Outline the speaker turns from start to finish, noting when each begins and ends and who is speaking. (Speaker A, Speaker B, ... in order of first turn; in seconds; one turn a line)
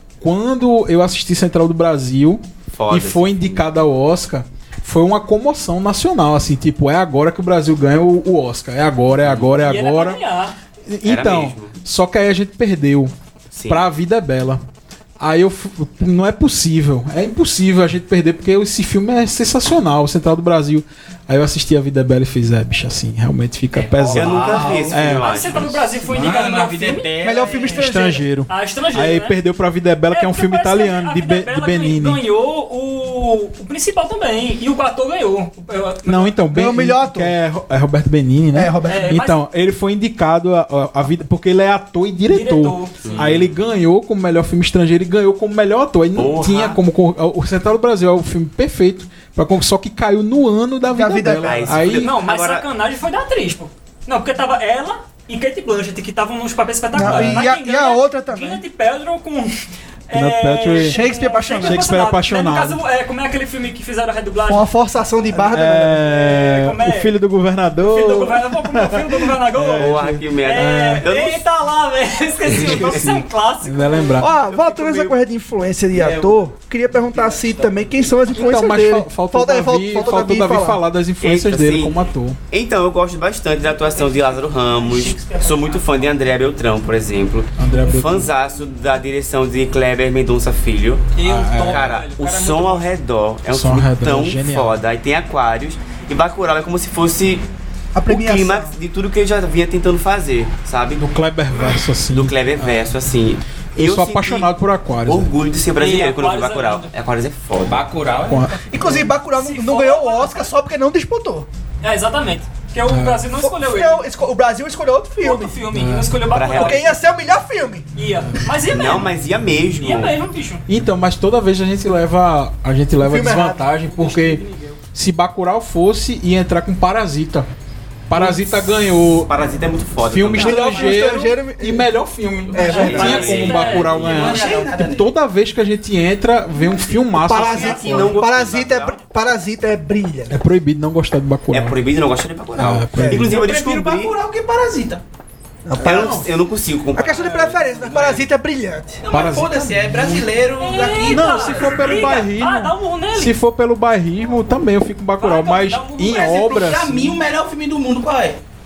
Speaker A: 0.2-10.2
Speaker B: 2.8-3.6
Speaker B: 9.2-9.5
Speaker C: 9.6-10.6
Speaker A: 10.9-13.1
Speaker B: 11.1-11.8
Speaker B: 13.5-13.8
Speaker A: 13.7-14.6
Speaker A: 15.2-25.3
Speaker D: 23.7-25.2
Speaker B: 24.1-25.9
Speaker C: 25.2-27.9
Speaker D: 26.0-27.8
Speaker E: 27.2-28.2
Speaker A: 27.8-32.2
Speaker C: 28.5-29.4
Speaker C: 30.1-36.4
Speaker A: 36.0-52.1
Speaker E: 36.5-37.3
Speaker E: 38.5-39.2
Speaker C: 38.9-39.4
Speaker C: 42.3-43.0
Speaker B: 43.0-43.5
Speaker B: 46.2-46.8
Speaker E: 50.9-51.8
Speaker B: 51.4-52.7
Speaker C: 52.0-59.5
Speaker A: 57.0-57.5
Speaker E: 57.0-58.6
Speaker C: 60.1-64.7
Speaker A: 60.1-61.0
Speaker E: 60.8-61.9
Speaker A: 61.6-62.8
Speaker E: 64.5-66.0
Speaker C: 65.3-67.1
Speaker A: 65.5-71.1
Speaker C: 67.8-74.2
Speaker B: 69.8-71.4
Speaker B: 72.5-73.1
Speaker A: 72.5-74.3
Speaker E: 74.2-80.8
Speaker B: 74.3-75.2
Speaker D: 75.9-78.3
Speaker A: 78.3-82.4
Speaker B: 81.2-97.4
Speaker D: 83.8-86.0
Speaker C: 84.2-86.1
Speaker A: 87.6-88.3
Speaker C: 91.2-92.9
Speaker A: 91.2-91.9
Speaker A: 93.5-94.8
Speaker E: 98.0-98.8
Speaker B: 98.1-101.0
Speaker A: 101.0-102.9
Speaker B: 102.1-104.5
Speaker A: 103.8-105.3
Speaker B: 105.1-107.8
Speaker C: 105.8-106.9
Speaker D: 107.6-108.6
Speaker A: 108.3-109.0
Speaker E: 108.7-111.5
Speaker C: 108.8-110.5
Speaker C: 111.8-114.0
Speaker A: 112.9-113.2
Speaker E: 113.4-115.6
Speaker C: 115.2-116.9
Speaker A: 115.7-116.2
Speaker B: 116.3-116.9
Speaker E: 116.5-117.9
Speaker C: 118.0-119.1
Speaker B: 118.7-120.2
Speaker C: 119.8-120.6
Speaker A: 120.7-124.4
Speaker E: 123.0-123.7
Speaker C: 124.1-124.8
Speaker A: 125.0-127.5
Speaker A: 128.1-129.3
Speaker B: 129.0-130.7
Speaker A: 130.0-138.1
Speaker E: 130.4-131.9
Speaker D: 132.5-135.1
Speaker E: 132.5-133.4
Speaker C: 132.6-134.5
Speaker B: 132.8-134.5
Speaker E: 137.1-140.4
Speaker B: 137.3-139.1
Speaker D: 137.5-138.2
Speaker A: 140.3-141.8
Speaker B: 141.5-144.2
Speaker A: 142.6-143.4
Speaker E: 143.0-143.3
Speaker D: 143.2-145.0
Speaker E: 145.7-146.3
Speaker A: 145.8-146.3
Speaker B: 145.8-148.2
Speaker E: 146.9-149.0
Speaker D: 147.8-148.2
Speaker D: 149.0-152.2
Speaker A: 149.1-150.3
Speaker C: 150.6-153.4
Speaker A: 151.1-157.2
Speaker C: 155.2-156.5
Speaker D: 156.1-158.4